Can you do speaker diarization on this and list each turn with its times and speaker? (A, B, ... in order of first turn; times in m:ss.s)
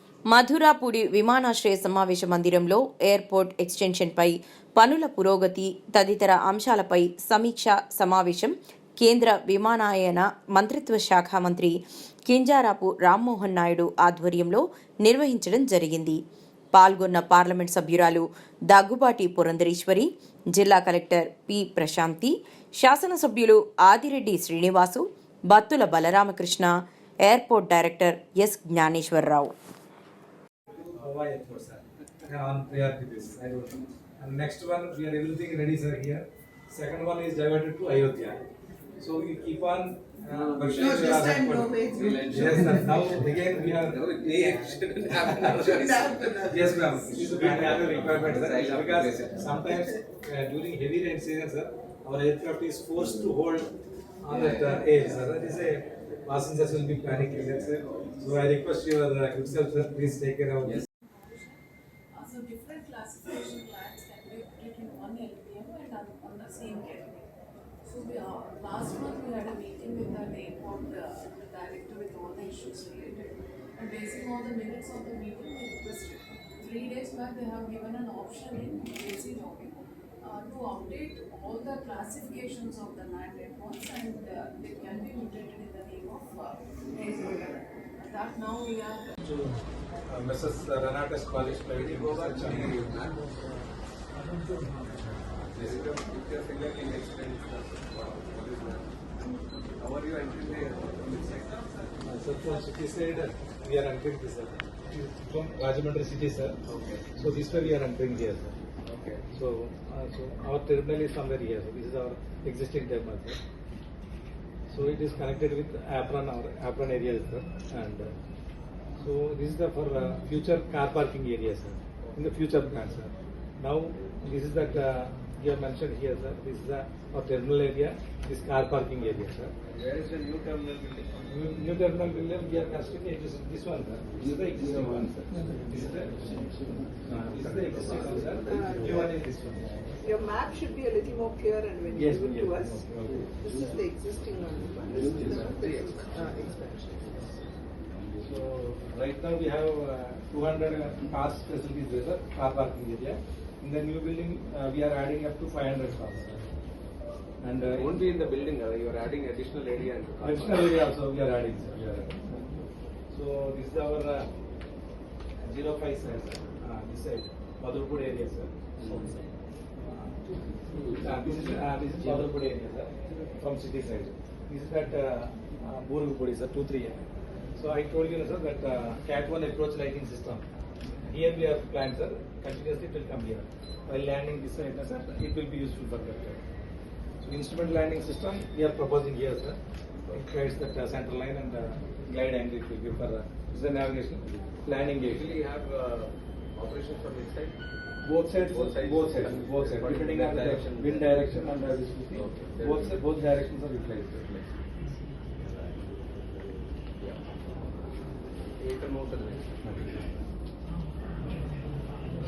0:00.3-0:16.2 A
0:16.7-0:29.5 A
0:30.9-0:38.4 B
0:39.0-0:45.7 B
0:40.3-0:41.2 C
0:40.8-0:43.0 D
0:42.0-0:42.8 C
0:43.6-0:46.4 C
0:45.4-0:47.1 D
0:46.4-1:00.8 B
0:47.2-0:49.5 C
1:01.0-1:01.6 E
1:02.1-1:07.3 E
1:07.8-1:29.2 E
1:29.2-1:32.9 B
1:31.7-1:33.4 C
1:35.5-1:38.9 C
1:39.8-1:41.7 C
1:42.0-1:46.6 B
1:46.7-1:47.1 C
1:47.1-1:48.6 B
1:48.8-1:49.2 C
1:49.3-1:53.4 B
1:54.7-1:58.1 B
1:59.0-2:09.5 B
2:09.7-2:11.3 C
2:11.3-2:20.0 B
2:14.2-2:15.0 C
2:16.0-2:19.1 C
2:18.5-2:19.1 D
2:20.0-2:22.8 D
2:21.9-2:23.3 B
2:23.4-2:26.8 D
2:24.8-2:27.3 C
2:28.2-2:36.5 B
2:37.4-2:38.0 B
2:37.7-2:40.7 C
2:40.2-2:42.5 B
2:43.1-2:44.3 B
2:45.4-2:49.3 B
2:48.8-2:49.1 C
2:49.8-2:57.0 B
2:50.7-2:52.3 C
2:57.6-3:00.4 B
3:01.0-3:06.4 B
3:07.2-3:09.6 B
3:10.1-3:15.3 B
3:15.0-3:17.6 C
3:18.0-3:24.5 B
3:18.4-3:21.3 C
3:22.1-3:23.0 C
3:25.4-3:25.9 C
3:27.0-3:27.4 C
3:28.6-3:30.1 C